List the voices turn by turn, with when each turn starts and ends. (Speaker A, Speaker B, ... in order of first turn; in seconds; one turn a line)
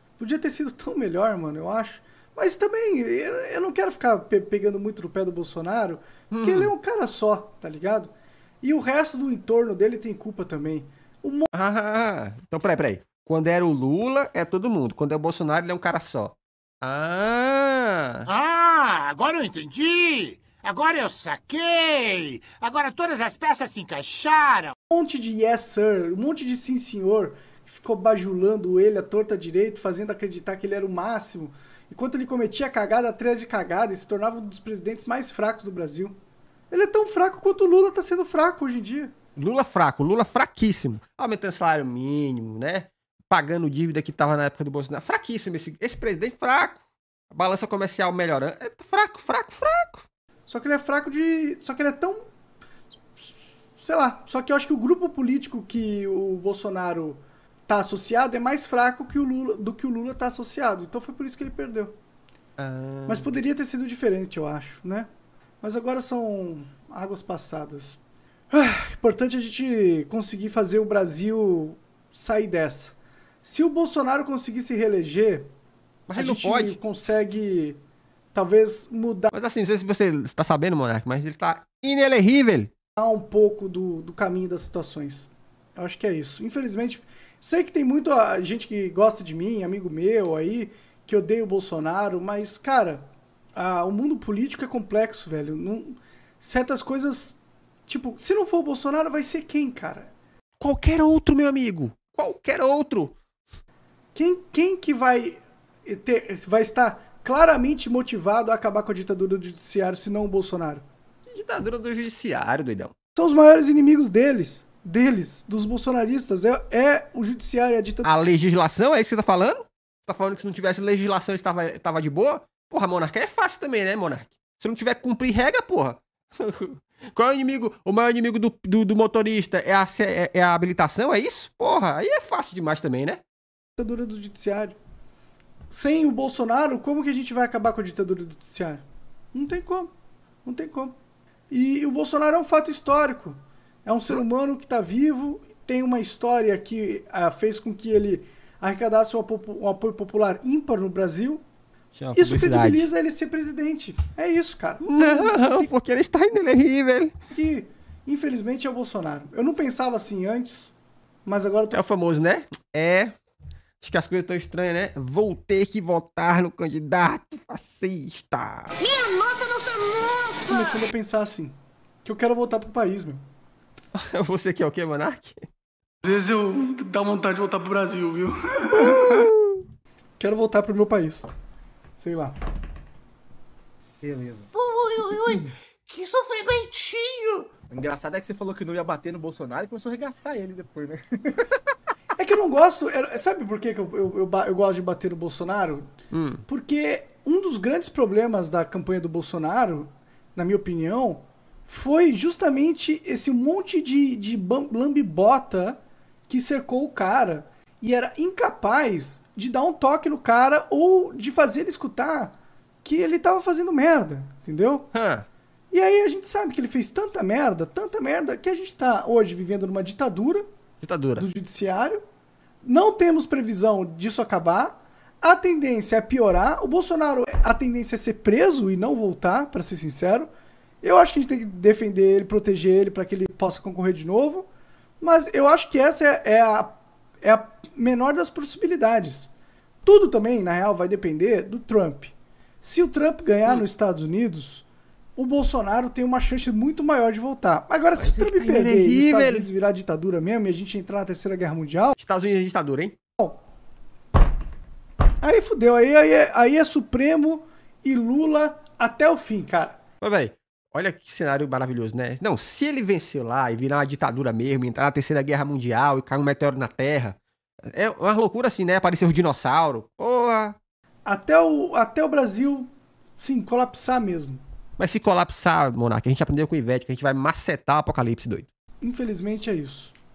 Speaker A: 0.2-11.5
Speaker B: 6.3-6.7
Speaker B: 11.5-18.2
Speaker C: 18.2-24.7
Speaker A: 24.9-36.1
Speaker A: 36.7-39.1
Speaker B: 39.4-46.8
Speaker B: 47.3-50.0
Speaker A: 50.5-52.2
Speaker A: 53.2-62.0
Speaker B: 62.6-63.3
Speaker A: 63.1-65.1
Speaker A: 65.6-68.0
Speaker A: 68.5-75.5
Speaker B: 76.1-76.8
Speaker A: 76.1-77.8
Speaker A: 78.3-79.3
Speaker B: 79.3-82.7
Speaker A: 83.0-100.1
Speaker B: 100.6-103.2
Speaker A: 104.1-110.8
Speaker B: 111.3-112.9
Speaker A: 113.2-118.1
Speaker B: 118.0-133.2
Speaker A: 133.8-134.8
Speaker A: 135.7-139.9
Speaker A: 140.4-140.9
Speaker A: 141.5-151.4
Speaker B: 151.9-152.9
Speaker A: 152.2-155.7
Speaker B: 154.8-157.1
Speaker A: 157.3-160.7
Speaker A: 161.2-161.8
Speaker B: 161.7-163.1
Speaker B: 163.8-168.8
Speaker D: 168.8-170.8
Speaker A: 170.5-173.2
Speaker B: 174.0-175.4
Speaker A: 176.0-179.3
Speaker B: 178.7-179.6
Speaker A: 180.2-181.3
Speaker A: 182.0-182.3
Speaker E: 184.0-184.5
Speaker C: 184.5-187.5
Speaker E: 187.7-191.5
Speaker A: 192.2-195.8
Speaker B: 196.1-196.4
Speaker A: 196.5-214.9
Speaker B: 214.9-215.3
Speaker A: 215.7-220.4
Speaker B: 220.8-221.3
Speaker A: 221.2-222.0
Speaker A: 222.6-230.3
Speaker A: 230.8-234.5
Speaker A: 235.0-239.3
Speaker A: 239.8-251.9
Speaker B: 248.0-249.5
Speaker B: 252.0-252.9
Speaker A: 255.2-259.8
Speaker B: 260.0-267.2
Speaker B: 267.7-270.6
Speaker A: 271.1-274.4
Speaker B: 274.8-278.5
Speaker A: 278.8-279.9